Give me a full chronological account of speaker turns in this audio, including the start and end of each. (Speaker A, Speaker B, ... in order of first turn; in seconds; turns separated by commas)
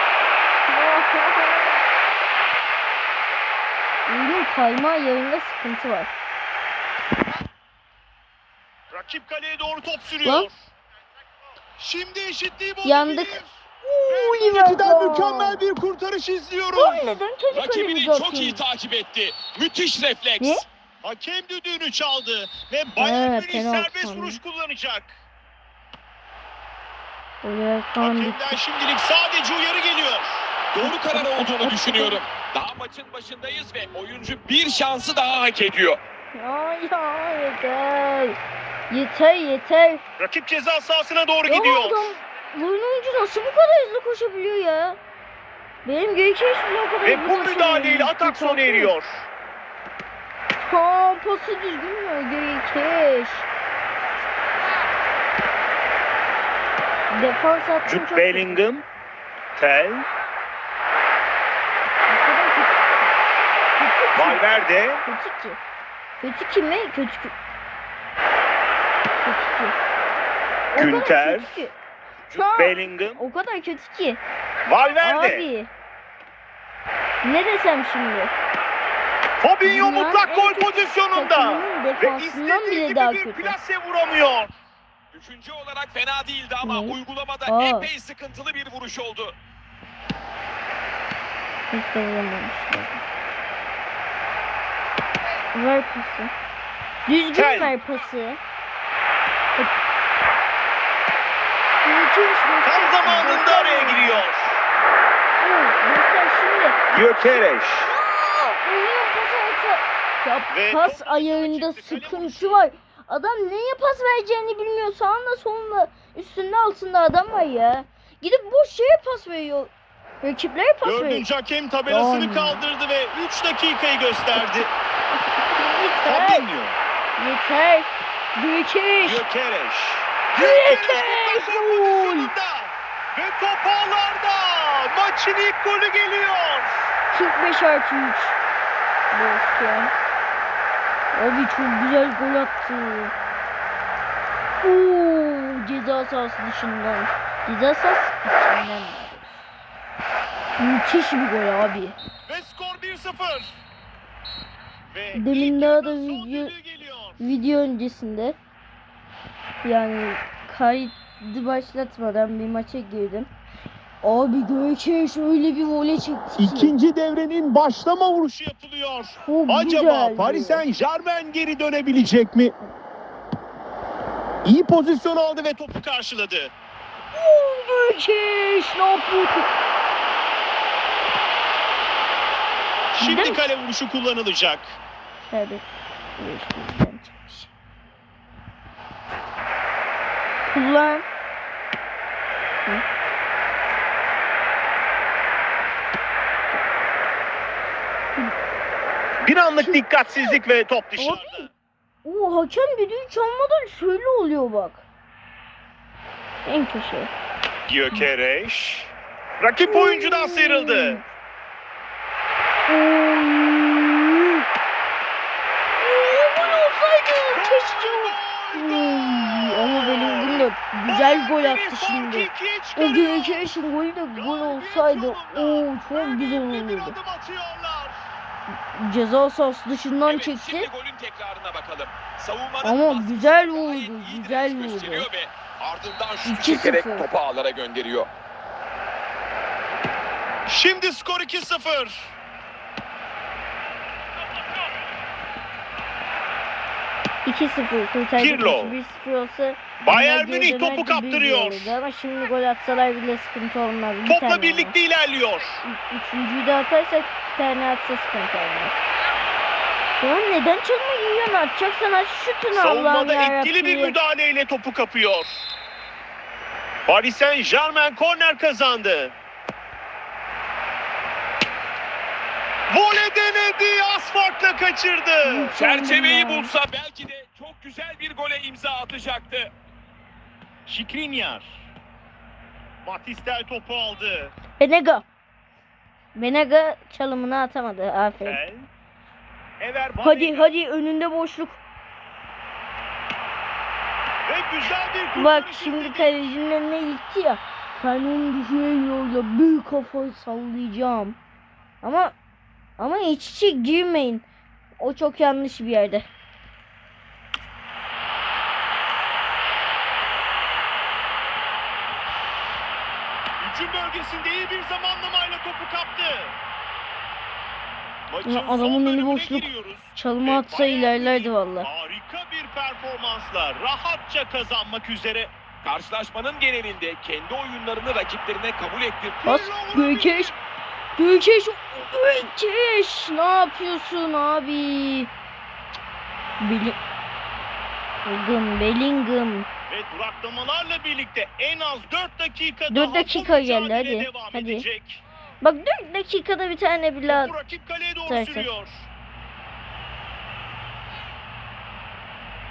Speaker A: 0.6-1.8, Speaker A: 4.0-6.1, Speaker B: 8.9-10.7, Speaker A: 10.2-10.5, Speaker B: 11.8-17.1, Speaker A: 12.8-15.6, Speaker A: 16.7-18.6, Speaker C: 17.5-20.5, Speaker B: 21.0-25.2, Speaker A: 23.0-24.4, Speaker A: 27.4-28.6, Speaker B: 28.0-30.6, Speaker C: 30.7-36.0, Speaker A: 30.8-32.2, Speaker A: 36.3-38.4, Speaker A: 38.9-40.0, Speaker B: 40.2-42.1, Speaker A: 41.5-45.0, Speaker A: 45.8-48.9, Speaker B: 47.0-49.3, Speaker A: 50.6-53.5, Speaker A: 57.1-58.6, Speaker B: 57.8-58.8, Speaker B: 59.5-60.0, Speaker A: 62.1-63.1, Speaker A: 63.8-65.6, Speaker B: 64.1-65.0, Speaker A: 66.2-67.3, Speaker A: 69.2-69.8, Speaker A: 70.7-71.8, Speaker B: 70.7-71.5, Speaker B: 72.3-73.2, Speaker A: 72.3-74.2, Speaker B: 74.7-75.5, Speaker A: 75.0-75.7, Speaker A: 77.2-78.3, Speaker B: 79.4-84.5, Speaker A: 79.6-83.5, Speaker C: 85.1-89.3, Speaker A: 86.6-87.9, Speaker A: 91.7-93.0, Speaker A: 95.5-96.3, Speaker A: 97.0-98.4, Speaker B: 97.3-97.8, Speaker A: 101.8-104.2, Speaker B: 102.6-104.6, Speaker A: 105.4-121.2, Speaker B: 106.9-107.9, Speaker B: 110.5-112.7, Speaker B: 120.8-124.7, Speaker A: 121.9-122.6, Speaker A: 125.3-126.5, Speaker B: 126.0-126.8, Speaker A: 127.2-129.2, Speaker B: 129.0-136.8, Speaker A: 130.3-132.3, Speaker A: 137.1-138.4, Speaker A: 139.1-139.9, Speaker A: 141.1-143.1, Speaker A: 144.6-149.3, Speaker A: 150.6-152.0, Speaker B: 152.3-153.6, Speaker B: 154.9-157.2, Speaker A: 155.1-156.5, Speaker A: 157.2-158.4, Speaker A: 159.6-163.3, Speaker A: 164.0-166.7, Speaker B: 166.4-172.5, Speaker A: 169.2-170.6, Speaker B: 174.4-176.5, Speaker A: 177.1-179.5, Speaker B: 182.9-184.8, Speaker A: 183.0-183.4, Speaker A: 185.3-187.5, Speaker A: 190.4-191.1, Speaker B: 199.2-201.5, Speaker A: 199.6-200.3, Speaker A: 201.0-201.5, Speaker A: 202.0-204.8, Speaker A: 206.4-207.1, Speaker B: 207.7-211.0, Speaker A: 209.6-211.1, Speaker A: 212.7-214.4, Speaker A: 215.8-227.0, Speaker B: 217.3-223.5, Speaker B: 224.1-228.1, Speaker A: 228.7-230.7, Speaker C: 230.1-238.1, Speaker A: 232.6-235.1, Speaker A: 236.2-237.1, Speaker B: 240.5-242.1, Speaker A: 247.2-254.7, Speaker B: 248.2-248.8, Speaker B: 249.8-251.8, Speaker B: 254.1-255.6, Speaker A: 255.6-258.8, Speaker A: 260.0-263.9, Speaker B: 262.5-265.5, Speaker B: 266.9-269.1, Speaker B: 272.7-275.5, Speaker A: 275.2-276.5, Speaker C: 275.5-279.5, Speaker B: 280.6-281.7, Speaker B: 282.8-284.3, Speaker A: 284.6-285.0, Speaker A: 286.1-288.4, Speaker B: 288.2-288.7, Speaker B: 289.6-290.5, Speaker A: 290.0-291.6, Speaker B: 294.2-296.2, Speaker A: 295.1-301.2, Speaker A: 301.8-302.1, Speaker A: 302.8-304.2, Speaker A: 304.8-306.1, Speaker B: 313.4-316.3, Speaker B: 318.1-325.3, Speaker A: 318.2-321.7, Speaker C: 325.6-329.3, Speaker B: 329.2-330.4, Speaker A: 329.2-330.3, Speaker A: 331.0-335.1, Speaker A: 336.4-336.8, Speaker A: 338.0-339.5, Speaker B: 339.7-345.0, Speaker A: 342.7-344.6, Speaker A: 345.4-347.3, Speaker B: 347.1-348.9, Speaker A: 348.1-348.5